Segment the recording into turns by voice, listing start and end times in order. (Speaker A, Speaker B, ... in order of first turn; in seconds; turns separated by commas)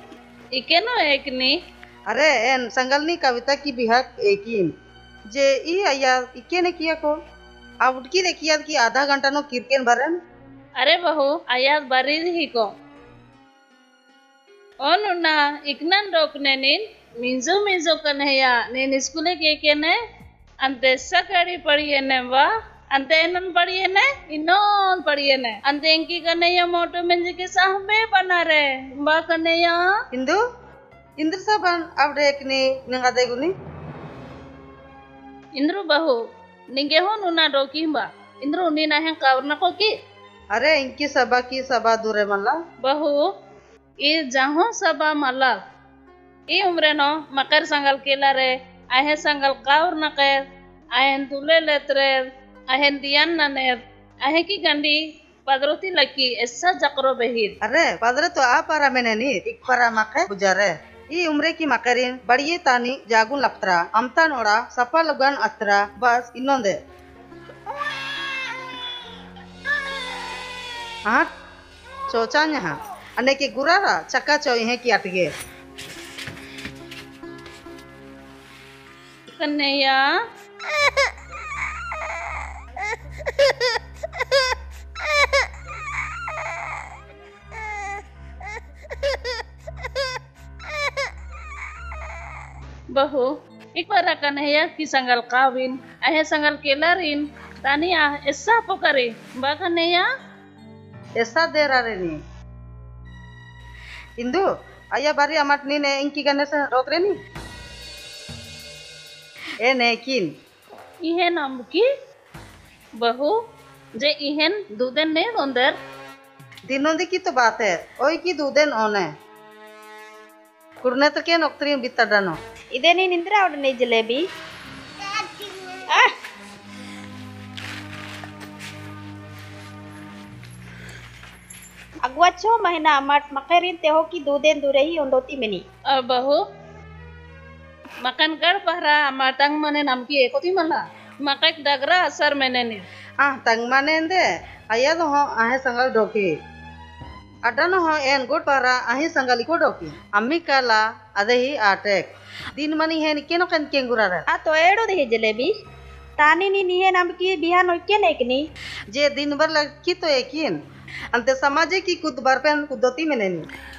Speaker A: 0.5-1.6, Speaker B: 2.1-4.7, Speaker B: 5.3-7.2, Speaker B: 7.8-10.2, Speaker A: 10.8-12.7, Speaker A: 14.8-19.9, Speaker A: 20.6-29.8, Speaker B: 30.1-30.4, Speaker B: 31.2-33.5, Speaker A: 35.5-36.2, Speaker A: 36.7-39.9, Speaker B: 40.5-42.6, Speaker A: 42.8-43.2, Speaker A: 44.0-45.5, Speaker A: 46.5-50.4, Speaker A: 51.0-57.5, Speaker B: 57.6-66.8, Speaker B: 72.1-75.3, Speaker A: 79.3-80.1, Speaker A: 92.9-100.1, Speaker B: 101.2-102.2, Speaker B: 104.2-107.2, Speaker B: 109.6-110.3, Speaker A: 111.0-111.8, Speaker A: 113.0-113.3, Speaker A: 114.0-115.8, Speaker B: 116.7-119.1, Speaker B: 120.8-122.4, Speaker C: 122.8-124.2, Speaker C: 132.0-135.6, Speaker A: 135.9-136.4, Speaker A: 138.0-142.8, Speaker B: 143.2-146.3, Speaker B: 147.4-154.2, Speaker C: 154.3-155.5, Speaker C: 156.2-158.4, Speaker B: 158.9-160.6, Speaker B: 161.1-163.4